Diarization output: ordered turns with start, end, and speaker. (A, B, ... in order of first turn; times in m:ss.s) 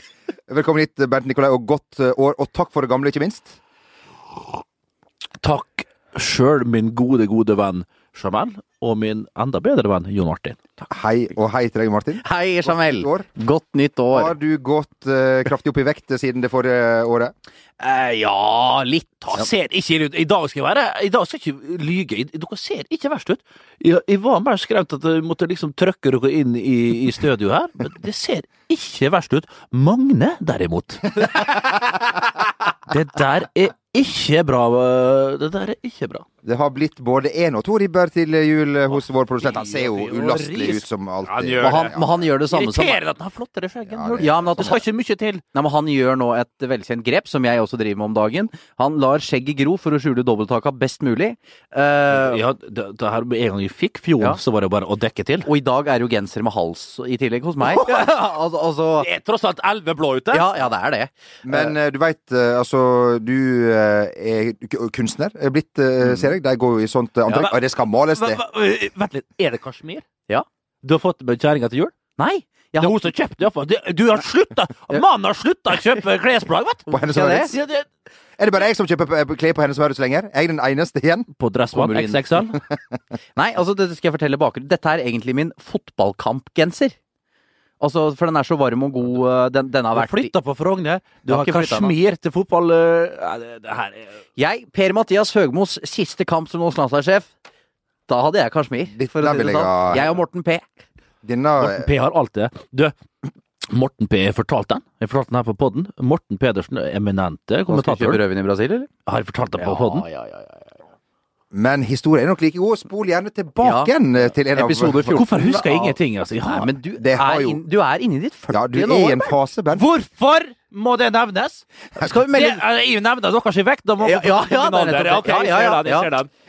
0:00.5-0:03.5 A
0:05.4-0:10.6 B
0:10.9-0:13.3 A
0:12.2-0:14.3 C
0:14.1-0:17.3 A
0:17.8-0:19.0 C
0:18.4-0:31.8 B
0:32.9-0:36.2 B
0:36.4-0:42.2 A
0:38.9-0:45.4 B
0:41.6-0:43.0 C
0:43.9-0:44.8 A
0:44.2-0:44.8 C
0:45.5-0:52.4 C
0:52.1-0:55.5 B
0:55.4-0:59.1 C
0:57.6-0:58.3 B
0:59.0-1:00.4 B
1:00.3-1:01.7 C
1:01.4-1:08.4 A
1:07.3-1:07.5 C
1:08.1-1:10.0 B
1:10.8-1:11.9 B
1:12.2-1:13.1 C
1:12.8-1:17.8 B
1:16.9-1:17.5 A
1:16.9-1:17.5 C
1:18.4-1:21.3 A
1:21.4-1:22.6 B
1:21.7-1:22.4 C
1:22.7-1:23.0 A
1:23.4-1:26.9 C
1:27.8-1:30.3 C
1:29.9-1:34.2 B
1:31.2-1:32.0 C
1:34.4-1:37.3 C
1:38.1-1:40.6 C
1:38.9-1:40.1 A
1:41.2-1:41.9 A
1:41.6-1:42.9 B
1:43.7-1:48.2 B
1:47.7-1:48.9 C
1:49.0-1:50.0 B
1:49.6-1:50.6 C
1:51.5-1:55.9 A
1:53.6-1:53.9 C
1:54.5-1:55.6 C
1:55.1-1:56.7 B
1:56.5-1:59.3 C
1:57.0-1:57.6 A
1:58.5-1:59.8 A
1:59.7-2:06.3 B
2:02.0-2:02.6 C
2:04.0-2:06.1 C